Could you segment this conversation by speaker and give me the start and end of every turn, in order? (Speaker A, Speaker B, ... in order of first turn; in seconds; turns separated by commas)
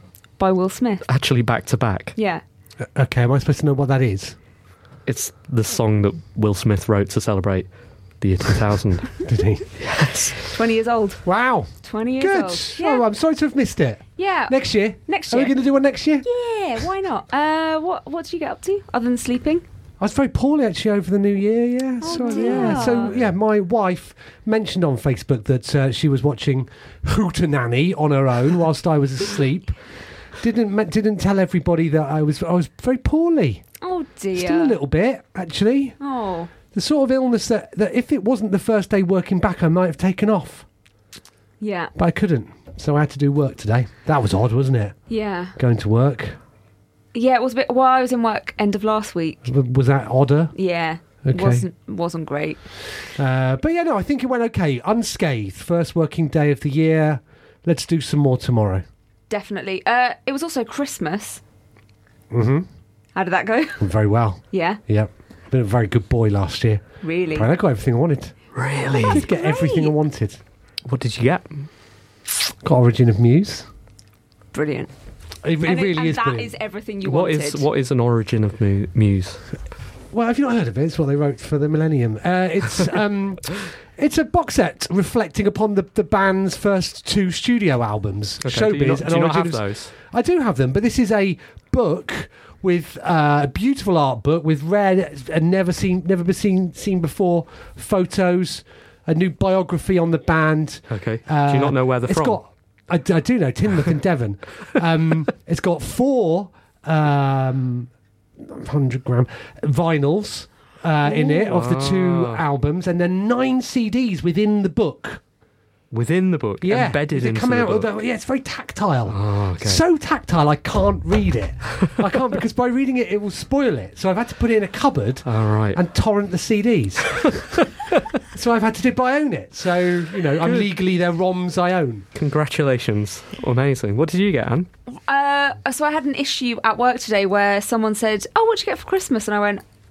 Speaker A: 0.4-1.1, Speaker B: 1.1-2.1, Speaker A: 2.2-2.4, Speaker C: 2.8-4.4, Speaker B: 5.1-7.7, Speaker B: 8.2-9.2, Speaker C: 9.2-9.7, Speaker B: 9.8-10.4, Speaker A: 10.5-11.2, Speaker C: 11.2-16.3, Speaker A: 11.8-13.1, Speaker A: 14.2-15.6, Speaker A: 16.2-19.6, Speaker C: 20.0-29.8, Speaker A: 22.0-23.2, Speaker B: 22.5-22.9, Speaker C: 30.4-33.6, Speaker A: 33.8-34.8, Speaker C: 34.3-36.0, Speaker A: 36.0-36.5, Speaker C: 36.7-40.7, Speaker A: 41.6-41.9, Speaker C: 42.0-45.0, Speaker A: 45.1-45.5, Speaker C: 45.6-46.4, Speaker A: 47.1-49.4, Speaker C: 49.4-50.5, Speaker A: 50.5-52.6, Speaker C: 51.2-51.7, Speaker C: 53.2-58.9, Speaker A: 59.3-61.4, Speaker C: 62.3-62.7, Speaker A: 63.2-63.9, Speaker C: 63.8-68.3, Speaker A: 64.5-64.8, Speaker A: 67.0-67.5, Speaker B: 68.5-69.2, Speaker A: 69.0-69.9, Speaker C: 69.0-70.4, Speaker B: 70.9-71.7, Speaker C: 72.6-73.7, Speaker A: 74.5-74.9, Speaker C: 75.4-76.5, Speaker A: 75.7-77.7, Speaker B: 77.0-79.4, Speaker C: 80.1-115.2, Speaker B: 88.4-89.9, Speaker B: 100.9-102.4, Speaker B: 111.1-112.4, Speaker B: 115.9-117.9, Speaker C: 116.6-127.4, Speaker B: 119.1-119.8, Speaker B: 125.3-125.8, Speaker B: 127.2-128.0, Speaker C: 128.3-132.1, Speaker B: 130.4-130.7, Speaker B: 132.2-134.7, Speaker A: 135.1-139.6